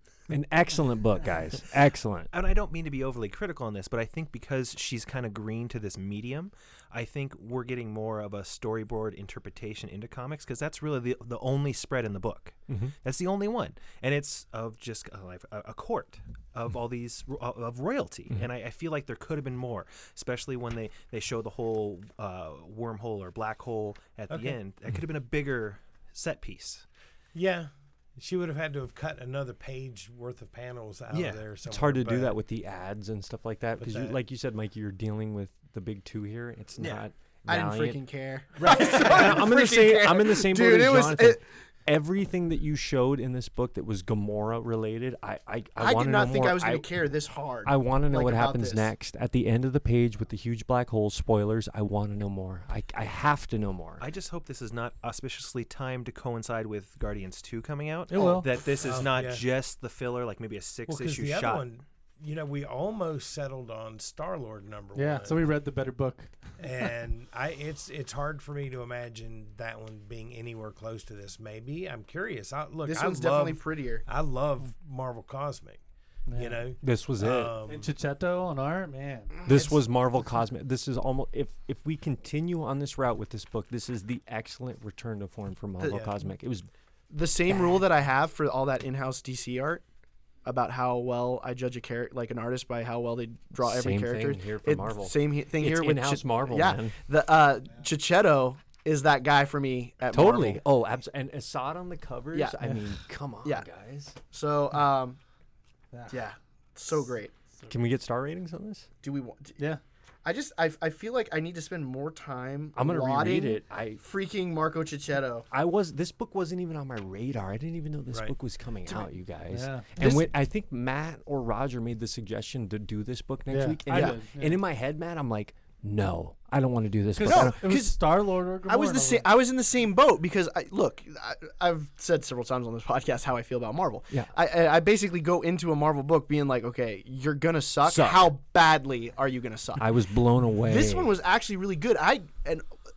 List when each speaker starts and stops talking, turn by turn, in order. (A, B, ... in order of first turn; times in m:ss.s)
0:00.3-0:02.3 A
0:02.3-0:26.8 B
0:12.7-0:12.9 A
0:24.3-0:24.6 C
0:27.3-0:32.3 C
0:31.1-0:31.4 B
0:31.6-0:38.0 A
0:33.8-0:34.2 C
0:36.8-0:37.0 B
0:37.5-0:41.4 D
0:38.6-0:46.9 A
0:45.8-0:48.9 D
0:47.6-0:54.0 A
0:54.0-1:01.6 B
0:58.1-0:58.5 E
0:58.2-0:58.4 D
0:58.8-0:59.4 C
1:00.9-1:05.5 C
1:04.9-1:06.6 E
1:06.6-1:15.8 C
1:12.8-1:14.0 D
1:16.3-1:16.6 E
1:16.3-1:17.9 C
1:16.8-1:17.5 A
1:17.6-1:19.5 E
1:19.4-1:26.7 A
1:25.8-1:26.1 D
1:27.1-1:29.8 D
1:30.4-1:40.6 D
1:33.6-1:37.0 A
1:40.1-1:44.2 A
1:44.3-1:45.2 D
1:45.9-1:46.2 E
1:46.1-1:47.3 D
1:47.7-1:48.9 A
1:49.0-1:49.6 D
1:50.2-1:55.5 D
1:52.7-1:54.0 A
1:55.5-2:07.6 A
1:59.5-2:00.1 E
2:03.5-2:04.6 E
2:03.9-2:04.2 D
2:07.2-2:09.3 E
2:07.2-2:19.9 D
2:17.8-2:18.3 A
2:19.8-2:21.1 A
2:20.6-2:22.6 D